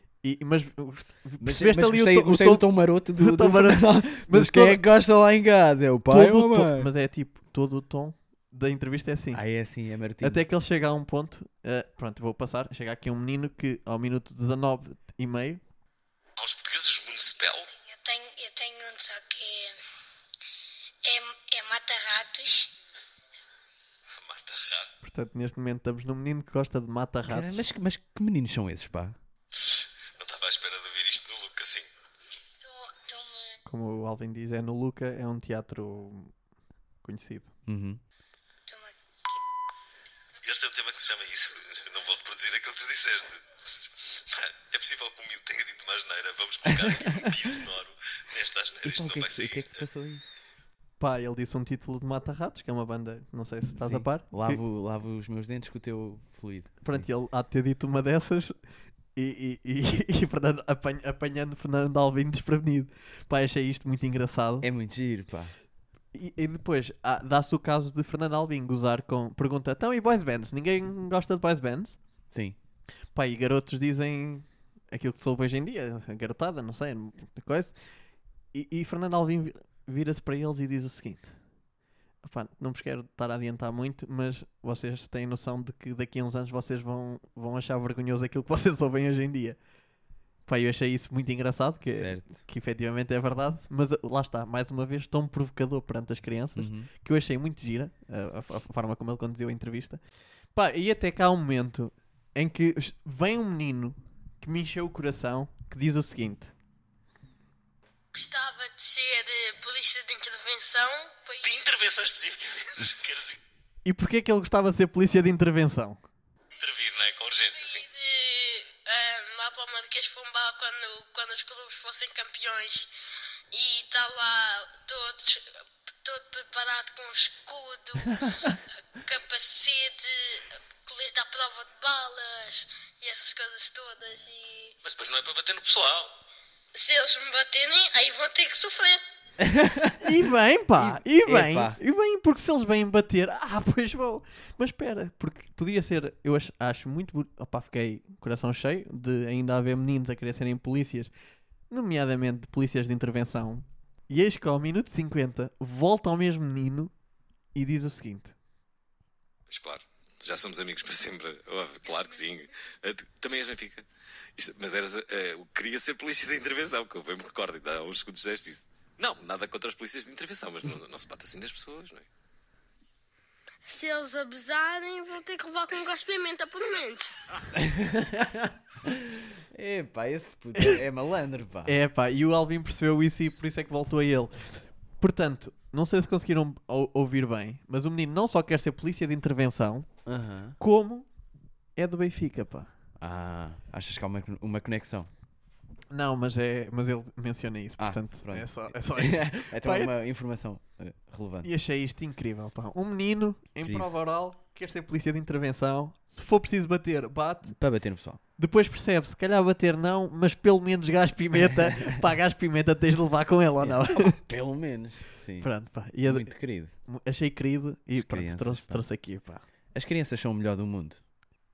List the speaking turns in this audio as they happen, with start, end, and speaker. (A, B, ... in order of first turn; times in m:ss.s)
0:00.2-0:04.8 A
0:01.4-0:06.9 B
0:06.1-0:09.4 A
0:09.3-0:10.4 B
0:10.2-0:15.6 A
0:16.4-0:17.7 C
0:17.8-0:19.8 D
0:21.0-0:22.7 D
0:24.2-0:24.9 C
0:25.0-0:27.6 A
0:27.3-0:29.2 B
0:29.5-0:31.9 C
0:32.6-0:33.6 D
0:33.7-0:36.3 A
0:37.0-0:37.5 A
0:37.7-0:38.0 B
0:38.7-0:39.4 D
0:40.4-0:49.7 C
0:46.7-0:47.5 B
0:48.8-0:50.2 B
0:51.0-0:54.6 A
0:53.8-0:57.1 B
0:56.8-0:58.6 A
0:59.2-1:04.7 A
1:04.6-1:05.5 B
1:06.1-1:12.0 A
1:12.3-1:12.6 B
1:13.2-1:17.8 A
1:18.5-1:21.3 A
1:22.2-1:29.6 A
1:30.5-1:40.0 A
1:31.9-1:32.4 B
1:36.6-1:36.9 B
1:40.6-1:46.5 A
1:48.1-1:51.5 D
1:51.4-1:53.4 C
1:53.8-1:56.0 A
1:56.6-1:57.9 C
1:57.6-2:02.9 D
2:03.5-2:05.5 D
2:06.0-2:14.8 D
2:14.8-2:16.1 C
2:16.8-2:19.0 D
2:19.4-2:20.1 B
2:20.0-2:31.1 A
2:20.8-2:21.8 B
2:31.7-2:36.9 A
2:37.6-2:38.3 A
2:39.5-2:52.1 C
2:53.7-2:57.2 D
2:57.6-3:01.7 B
3:01.7-3:09.9 A
3:10.1-3:10.6 B
3:10.6-3:11.1 A
3:11.8-3:12.7 A
3:13.0-3:15.1 B
3:15.9-3:19.9 A
3:17.8-3:21.5 B
3:21.4-3:27.6 A
3:23.6-3:23.9 B
3:27.5-3:28.2 B
3:28.4-3:34.2 A
3:31.5-3:31.9 B
3:33.6-3:36.8 B
3:35.4-3:39.4 A
3:38.0-3:38.8 B
3:39.7-3:41.0 B